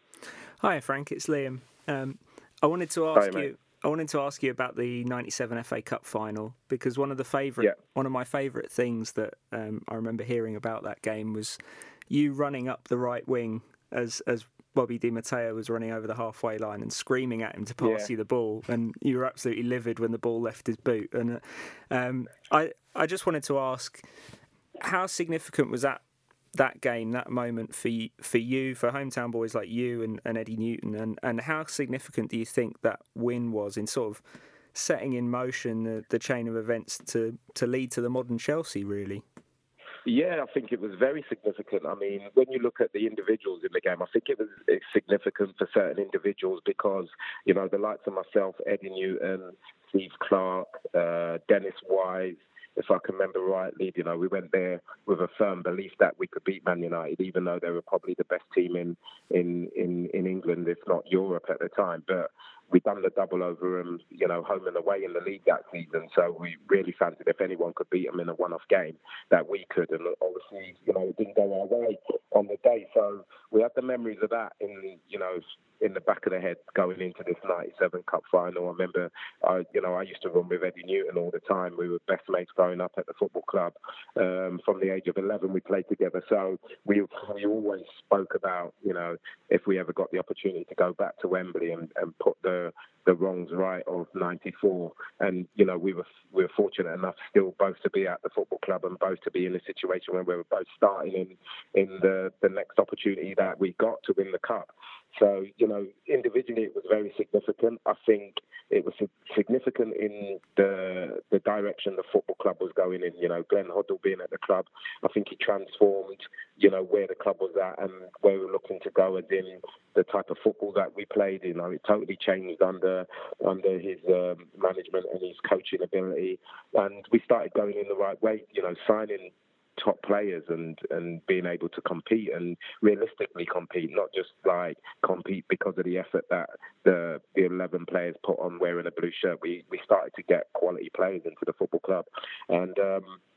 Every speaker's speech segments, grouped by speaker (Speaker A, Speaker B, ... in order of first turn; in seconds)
Speaker A: 0.6-11.6, 12.1-24.0, 24.8-26.0, 26.5-34.2, 34.7-39.2
Speaker B: 3.1-3.5, 17.8-18.1, 40.0-143.2